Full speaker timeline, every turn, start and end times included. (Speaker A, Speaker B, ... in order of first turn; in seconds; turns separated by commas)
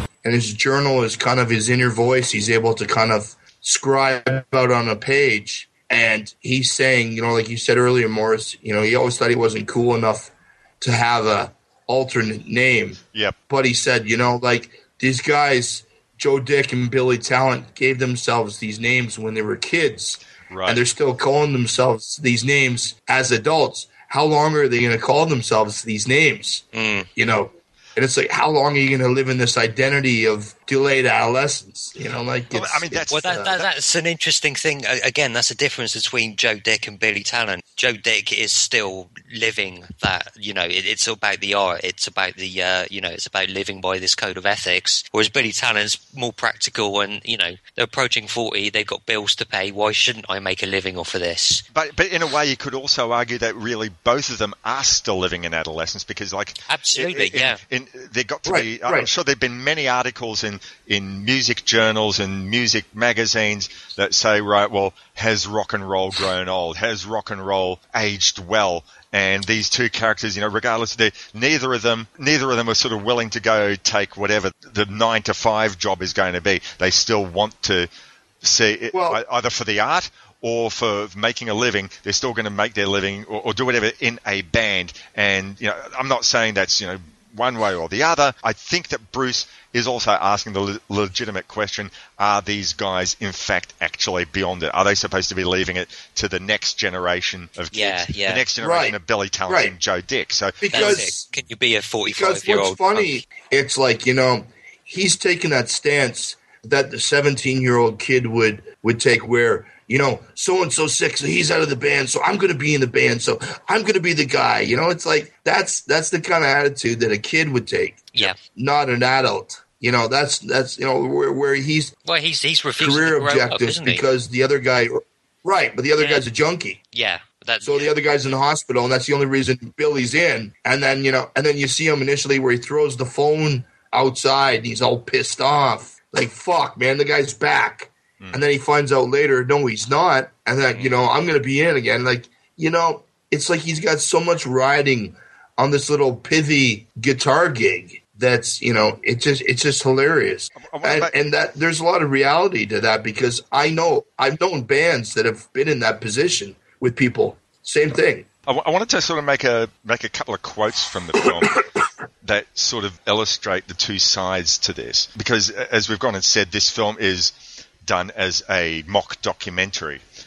Speaker A: 0.2-26.6, Speaker B: 20.5-20.9, Speaker C: 26.7-27.1, Speaker A: 27.2-33.5, Speaker B: 32.5-33.6, Speaker C: 33.1-51.6, Speaker B: 51.7-77.9, Speaker C: 56.7-57.6, Speaker A: 58.5-59.1, Speaker B: 78.4-101.0, Speaker A: 78.9-79.2, Speaker C: 97.7-98.4, Speaker A: 98.6-98.9, Speaker A: 100.6-101.3, Speaker C: 100.7-103.2, Speaker A: 102.1-121.9, Speaker C: 122.0-124.0, Speaker A: 122.8-126.8, Speaker C: 126.0-126.2, Speaker C: 126.9-127.9, Speaker A: 127.6-158.3, Speaker B: 150.6-151.1, Speaker B: 158.5-161.7, Speaker B: 162.2-170.0